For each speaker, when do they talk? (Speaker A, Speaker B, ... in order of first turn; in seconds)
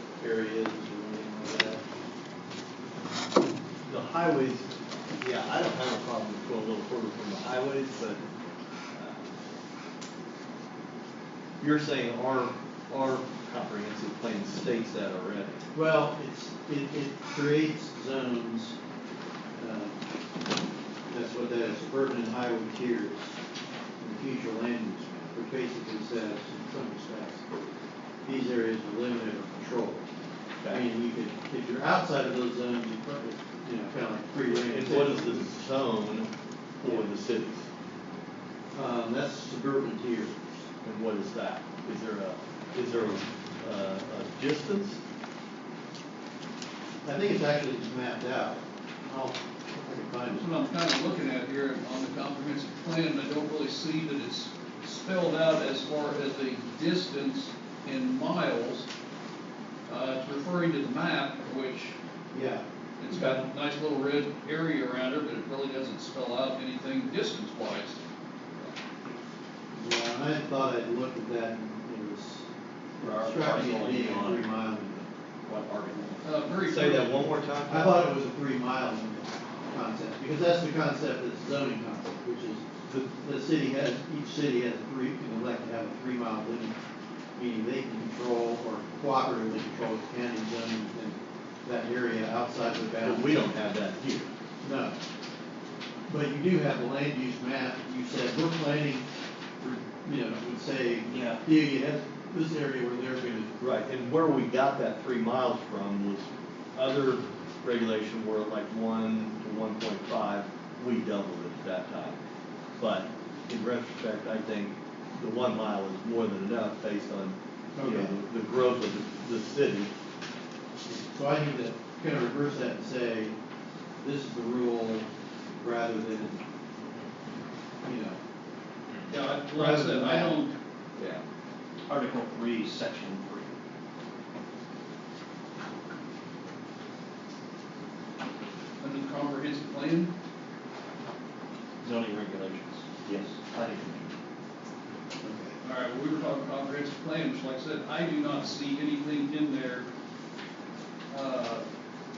Speaker A: 0.2-1.8, 15.7-18.8, 19.6-20.0, 21.1-23.4, 24.0-27.4, 28.2-30.1, 30.7-35.5, 36.8-37.1, 38.7-40.3, 47.0-50.5, 62.3-63.4, 69.7-72.5, 73.1-75.1, 77.7-86.8, 87.4-93.4, 94.6-95.0, 96.1-99.0, 99.6-103.6, 117.8-118.2, 120.9-123.3, 124.0-126.4, 127.8-128.2, 129.5-130.4, 145.2-145.5
Speaker B: 3.9-8.2, 8.9-9.3, 11.6-15.6, 34.5-37.7, 40.8-45.0, 76.7-78.0, 93.0-94.3, 103.6-112.2, 112.8-119.9
Speaker C: 50.3-58.9, 59.9-62.0, 63.0-68.0, 76.2-77.3, 129.1-130.5, 138.8-140.1, 145.6-149.9, 151.1-151.7
Speaker D: 73.0-74.5, 75.5-76.2, 101.1-101.4, 131.9-133.5, 141.8-144.0